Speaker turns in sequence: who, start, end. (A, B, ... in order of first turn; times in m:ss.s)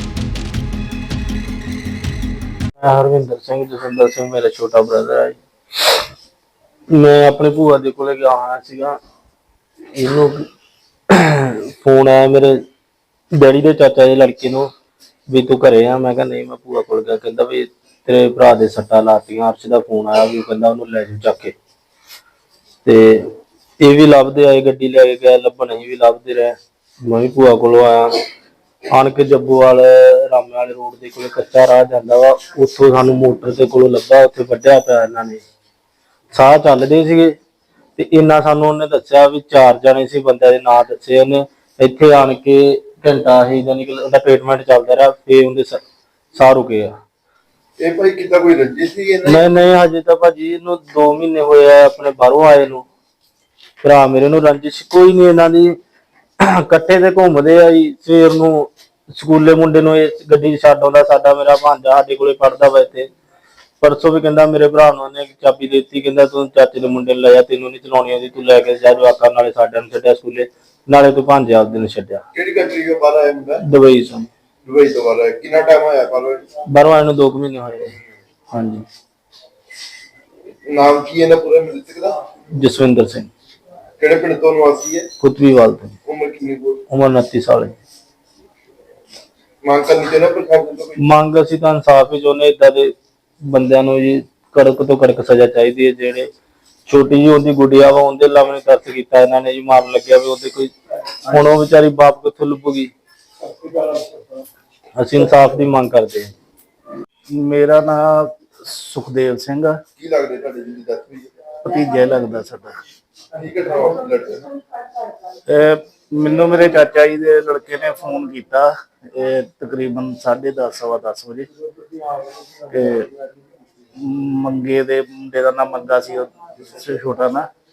0:02.8-0:06.0 A
0:06.9-0:09.0 A
0:09.9-0:10.4 A
0:11.1-0:12.6 A
0:13.3-0:14.7 A
0:15.3-0:21.5 A
0:22.8-0:23.3 A
0:23.8-0:28.2 A
0:28.9-0:35.4 A
0:36.3-0:37.3 A
0:38.0-0:45.8 A
0:46.3-0:46.9 A
0:47.8-0:49.3 B
0:49.2-0:52.8 A
0:53.8-0:55.8 A
0:56.4-1:03.1 A
1:03.8-1:12.2 A
1:12.3-1:13.6 B
1:13.6-1:14.3 A
1:14.6-1:16.4 B
1:16.7-1:18.0 A
1:18.5-1:18.8 A
1:20.7-1:22.1 B
1:22.6-1:23.3 A
1:24.0-1:25.0 B
1:25.2-1:25.9 A
1:26.1-1:26.8 B
1:26.9-1:27.8 A
1:29.6-1:30.9 B
1:31.0-1:32.9 A
1:33.4-1:36.3 A
1:36.9-1:40.7 A
1:41.2-1:42.9 A
1:45.0-1:46.3 A
1:47.4-1:49.8 C
1:50.0-1:51.3 B
1:51.6-1:52.7 C
1:53.4-1:54.5 B
1:55.5-2:01.5 C
2:02.7-2:03.1 C
2:04.0-2:07.5 C